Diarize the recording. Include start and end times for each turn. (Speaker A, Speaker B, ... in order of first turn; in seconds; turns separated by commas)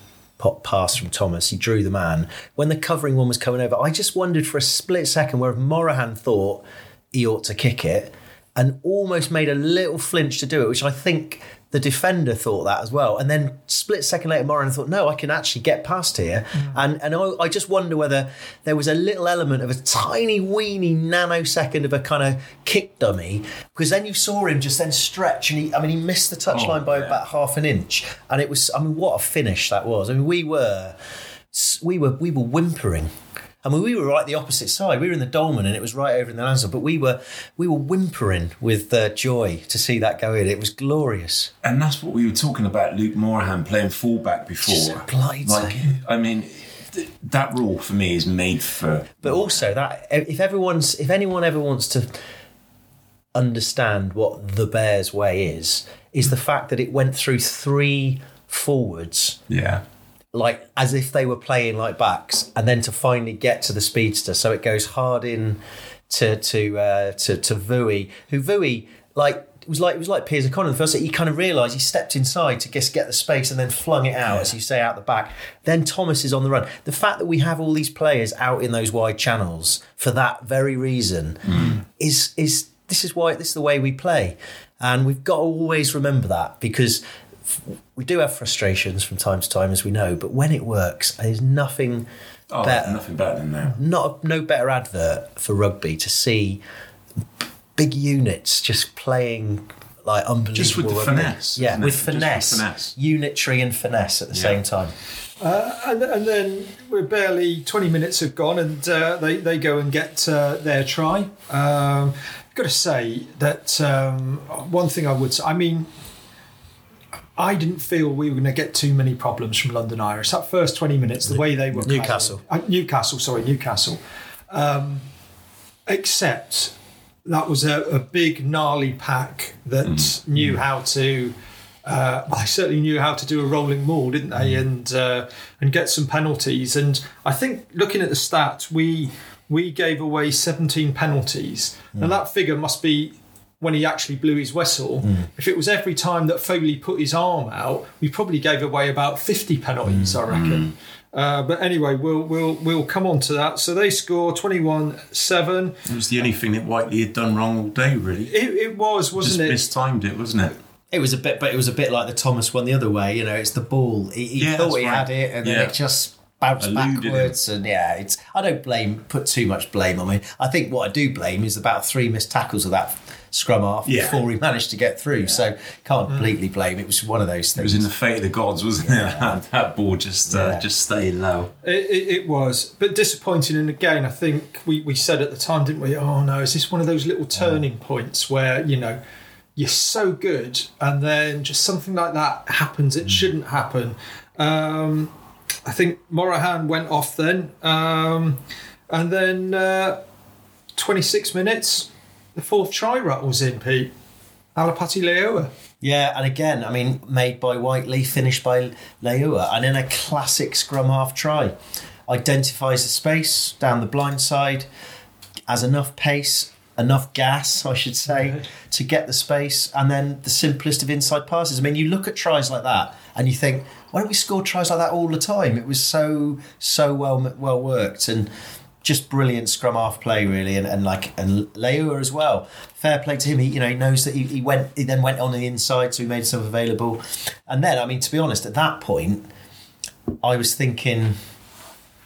Speaker A: 0.4-31.0, Speaker B: 26.5-27.2, Speaker A: 31.5-33.1, Speaker A: 33.6-41.5, Speaker B: 41.6-49.7, Speaker A: 44.6-46.0, Speaker A: 49.2-52.2, Speaker A: 53.3-59.4, Speaker B: 59.5-59.8, Speaker A: 60.3-92.1, Speaker B: 81.5-81.8, Speaker B: 92.5-93.8, Speaker A: 92.6-93.0, Speaker A: 93.7-96.6, Speaker A: 97.8-104.9, Speaker B: 100.5-102.9, Speaker B: 104.3-104.6, Speaker C: 105.4-115.9, Speaker C: 117.4-125.0, Speaker A: 121.8-122.4, Speaker C: 125.9-126.7, Speaker C: 127.2-155.8, Speaker B: 129.8-130.2, Speaker A: 149.9-150.2, Speaker B: 150.3-150.7, Speaker B: 155.8-158.3, Speaker C: 158.3-159.6, Speaker B: 159.2-160.6, Speaker A: 160.9-177.9, Speaker B: 164.4-165.8, Speaker B: 166.6-167.4, Speaker B: 173.8-174.2, Speaker B: 177.6-181.5, Speaker A: 178.8-179.2, Speaker A: 180.3-180.7, Speaker C: 181.6-189.0, Speaker C: 189.6-195.1, Speaker C: 195.7-200.0, Speaker C: 200.8-203.9, Speaker C: 204.5-205.5, Speaker A: 205.8-211.6, Speaker A: 212.1-214.7, Speaker A: 215.5-228.3, Speaker A: 228.8-239.3, Speaker A: 240.2-241.2